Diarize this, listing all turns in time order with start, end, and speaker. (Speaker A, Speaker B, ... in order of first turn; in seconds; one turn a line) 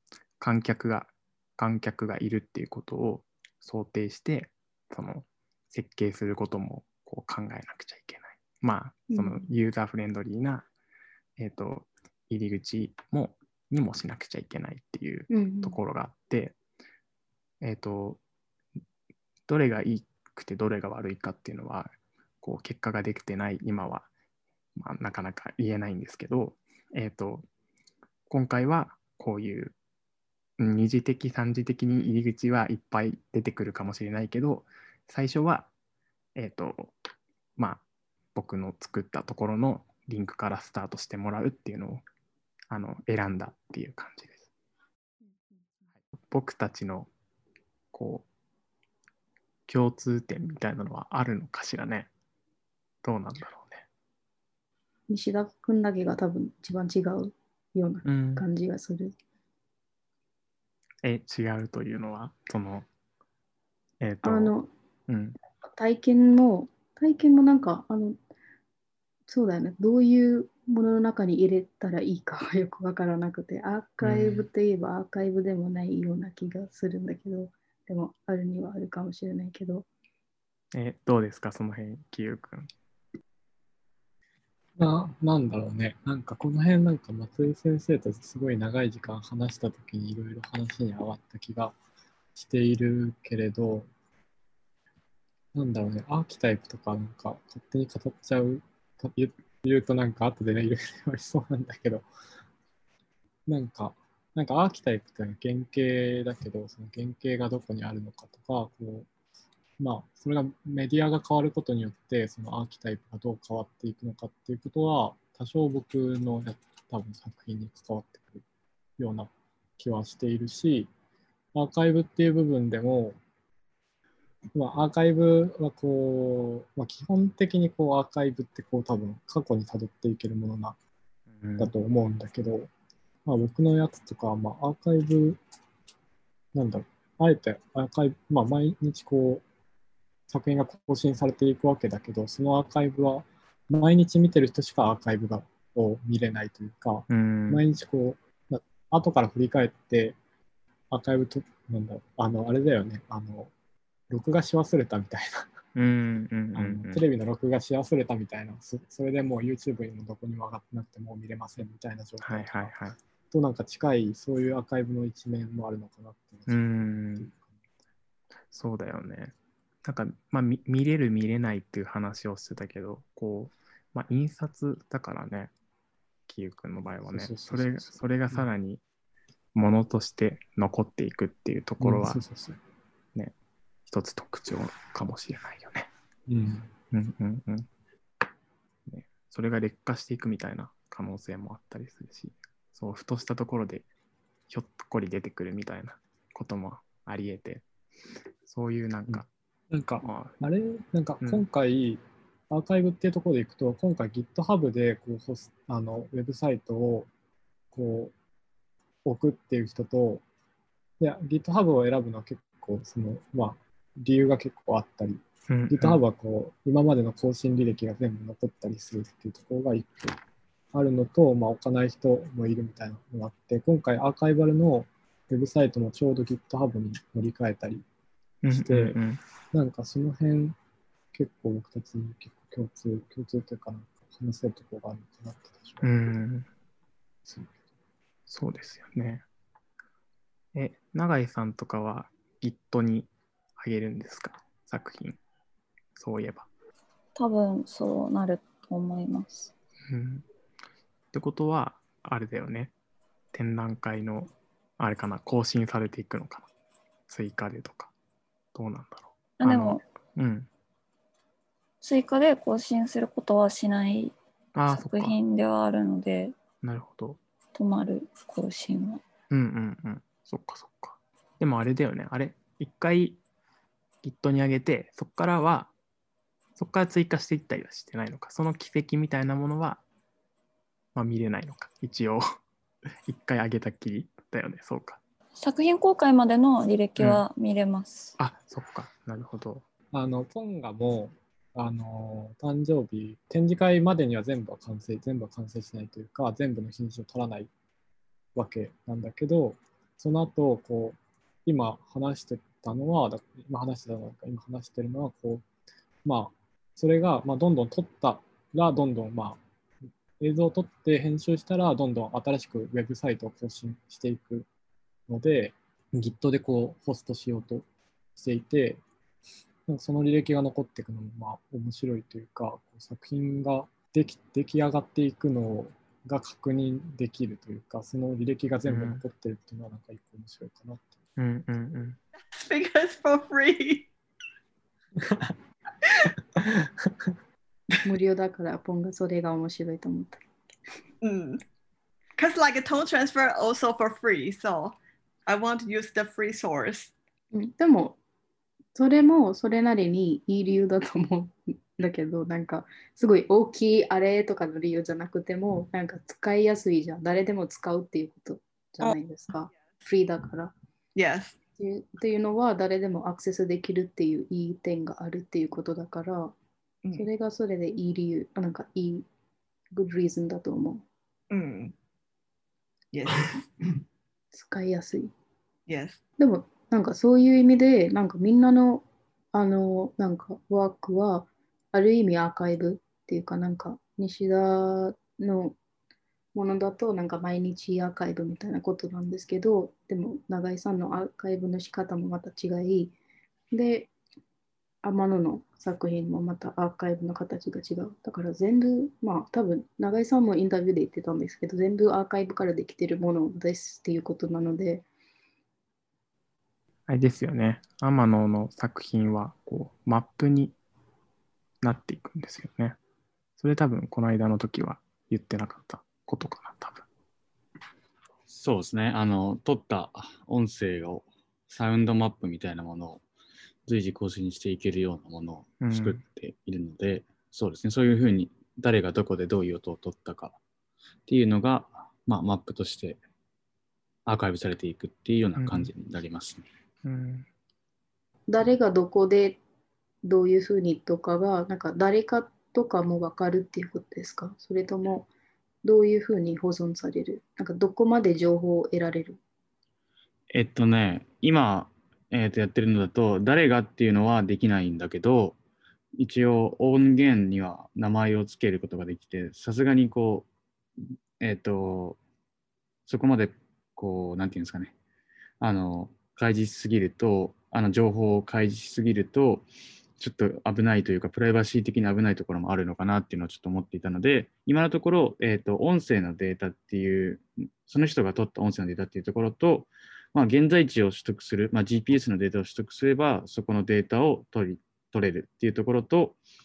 Speaker A: 0.4-10.7
Speaker B: 9.1-9.4
Speaker A: 11.4-16.6
Speaker B: 15.3-15.8
Speaker A: 17.6-18.2
Speaker A: 19.5-24.1
Speaker A: 24.8-27.4
Speaker A: 28.3-29.7
Speaker A: 30.6-35.7
Speaker A: 36.4-37.0
Speaker A: 37.6-37.8
Speaker A: 38.3-42.0
Speaker A: 42.7-44.5
Speaker B: 45.2-45.8
Speaker A: 46.1-47.1
Speaker A: 47.9-48.3
Speaker A: 49.7-52.1
Speaker A: 53.0-53.8
Speaker B: 55.1-59.1
Speaker A: 58.0-58.4
Speaker A: 61.0-62.9
Speaker A: 64.0-64.5
Speaker B: 64.2-64.7
Speaker A: 65.1-65.4
Speaker B: 65.7-68.2
Speaker B: 69.3-79.8
Speaker A: 74.0-74.5
Speaker A: 80.7-82.7
Speaker C: 84.8-91.8
Speaker C: 92.3-93.9
Speaker C: 95.5-102.0
Speaker C: 103.5-109.1
Speaker C: 109.8-118.4
Speaker C: 119.0-120.9
Speaker C: 121.5-123.2
Speaker C: 124.5-130.8
Speaker A: 131.4-131.7
Speaker C: 131.6-132.7
Speaker C: 133.2-135.4
Speaker C: 136.5-139.4
Speaker C: 140.3-150.2
Speaker A: 147.1-147.6
Speaker C: 150.9-153.5
Speaker C: 154.1-155.5
Speaker A: 155.7-157.0
Speaker C: 156.6-162.7
Speaker A: 162.2-163.0
Speaker C: 163.3-167.5
Speaker A: 166.5-167.3
Speaker A: 168.5-175.5
Speaker A: 176.3-178.8
Speaker C: 177.1-178.5
Speaker A: 179.5-182.2
Speaker C: 181.8-182.6
Speaker A: 183.9-185.9
Speaker C: 186.3-186.7
Speaker A: 186.9-187.7
Speaker A: 188.9-193.9
Speaker A: 194.5-197.6
Speaker A: 198.4-199.3
Speaker C: 199.1-207.1
Speaker A: 200.0-200.4
Speaker C: 207.7-208.1
Speaker C: 209.0-210.2
Speaker C: 211.0-220.2
Speaker A: 215.5-216.0
Speaker C: 220.7-227.8
Speaker A: 228.4-229.2
Speaker C: 228.5-229.0
Speaker C: 229.5-230.6
Speaker C: 231.1-235.9
Speaker A: 235.8-236.5
Speaker A: 238.3-239.2
Speaker A: 240.5-245.2
Speaker A: 245.9-246.5
Speaker D: 247.2-249.5
Speaker A: 249.9-250.2
Speaker A: 251.1-252.7
Speaker A: 253.3-256.5
Speaker A: 257.1-257.9
Speaker A: 258.5-260.5
Speaker D: 259.4-259.8
Speaker D: 261.8-264.1
Speaker A: 264.5-265.2
Speaker D: 264.6-266.4
Speaker A: 266.6-267.2
Speaker D: 267.6-269.0
Speaker A: 269.3-273.2
Speaker A: 274.0-275.7
Speaker A: 276.6-279.8
Speaker A: 280.9-282.2
Speaker A: 283.1-285.0
Speaker D: 285.4-288.1
Speaker A: 287.0-287.2
Speaker A: 288.2-289.6
Speaker C: 289.9-297.5
Speaker C: 298.3-305.4
Speaker C: 306.0-309.4
Speaker C: 310.2-314.5
Speaker C: 315.1-318.8
Speaker C: 319.7-330.9
Speaker A: 328.7-329.0
Speaker A: 331.2-332.0
Speaker E: 332.3-333.9
Speaker C: 335.0-335.3
Speaker C: 336.3-337.1
Speaker B: 337.8-340.2
Speaker E: 341.0-341.4
Speaker E: 342.2-346.9
Speaker B: 347.3-348.0
Speaker B: 348.7-360.5
Speaker E: 360.9-361.4
Speaker B: 361.6-366.3
Speaker B: 366.9-369.1
Speaker B: 369.7-370.8
Speaker E: 371.3-371.7
Speaker E: 372.9-373.8
Speaker B: 374.3-375.1
Speaker E: 375.7-376.0
Speaker B: 376.2-385.6
Speaker B: 386.3-392.9
Speaker B: 393.5-393.9
Speaker B: 394.8-404.8
Speaker A: 406.9-410.5
Speaker A: 411.6-412.8
Speaker A: 413.4-416.9
Speaker F: 418.3-423.0
Speaker F: 423.6-430.4
Speaker A: 425.6-426.0
Speaker F: 431.1-433.0
Speaker F: 434.1-436.4
Speaker A: 435.4-435.7
Speaker A: 436.8-437.3
Speaker B: 438.3-439.4
Speaker B: 440.0-445.1
Speaker B: 445.6-449.2
Speaker F: 450.3-455.4
Speaker F: 456.0-460.3
Speaker F: 461.2-462.0
Speaker F: 462.9-464.7
Speaker F: 465.4-469.4
Speaker F: 470.0-486.2